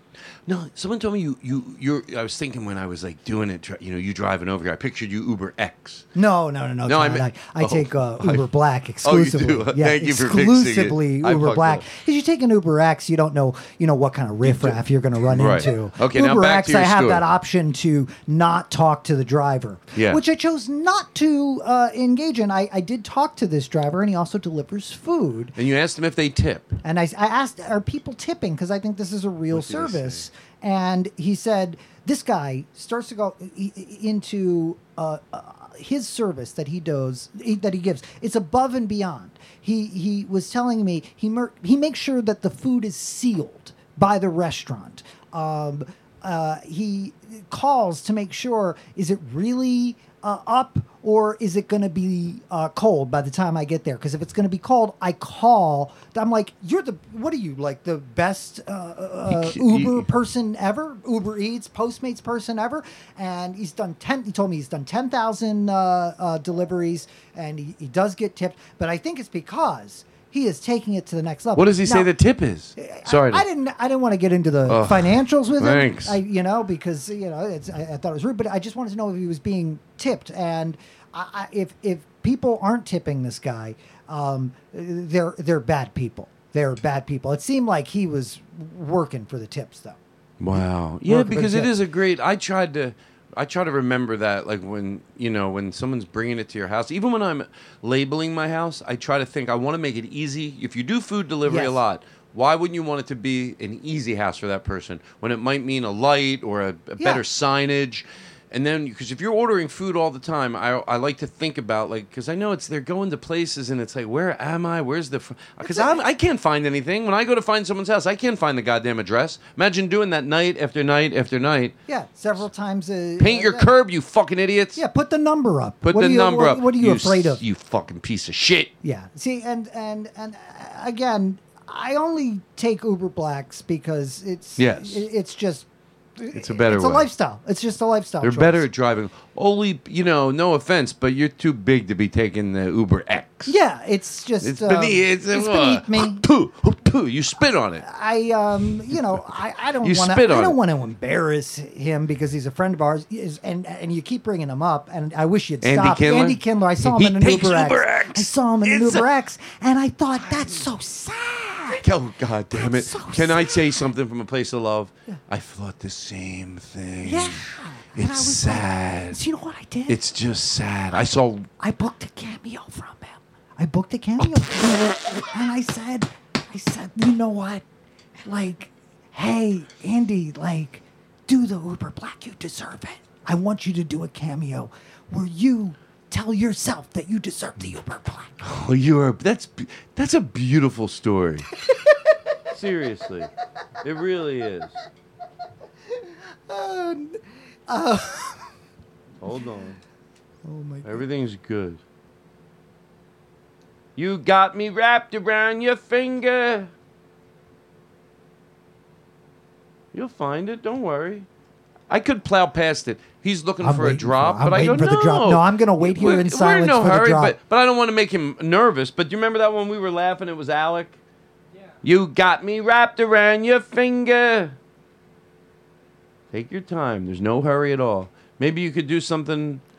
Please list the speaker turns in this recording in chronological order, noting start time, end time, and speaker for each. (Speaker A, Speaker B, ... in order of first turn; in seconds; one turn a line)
Speaker A: 0.5-6.1
Speaker B: 6.2-25.5
Speaker A: 6.9-8.5
Speaker A: 9.0-11.9
Speaker A: 14.4-14.8
Speaker A: 15.3-17.2
Speaker A: 19.9-20.2
Speaker A: 25.6-26.8
Speaker B: 26.8-72.1
Speaker A: 29.5-30.3
Speaker A: 59.3-60.1
Speaker A: 71.5-73.5
Speaker B: 72.8-90.0
Speaker A: 74.7-76.2
Speaker A: 90.4-121.8
Speaker B: 90.5-91.7
Speaker B: 101.5-101.8
Speaker B: 107.0-107.2
Speaker B: 115.6-116.0
Speaker B: 121.9-123.7
Speaker A: 123.2-124.8
Speaker B: 124.8-127.4
Speaker A: 125.8-128.7
Speaker B: 128.8-135.7
Speaker A: 134.6-135.1
Speaker B: 136.2-138.7
Speaker A: 136.3-137.1
Speaker A: 138.2-143.6
Speaker B: 143.5-146.2
Speaker A: 144.4-147.8
Speaker B: 147.8-161.8
Speaker A: 149.8-150.6
Speaker A: 155.6-159.1
Speaker A: 161.8-169.2
Speaker B: 162.5-163.8
Speaker B: 167.0-170.0
Speaker A: 169.9-171.5
Speaker B: 171.6-177.7
Speaker B: 178.2-188.3
Speaker A: 188.4-191.5
Speaker A: 192.5-193.3
Speaker A: 193.8-194.8
Speaker B: 196.5-198.5
Speaker A: 199.2-199.8
Speaker B: 200.4-201.1
Speaker A: 200.8-201.8
Speaker A: 204.0-206.7
Speaker A: 209.9-211.3
Speaker A: 211.9-221.0
Speaker B: 213.6-217.4
Speaker A: 221.8-224.6
Speaker A: 226.3-229.6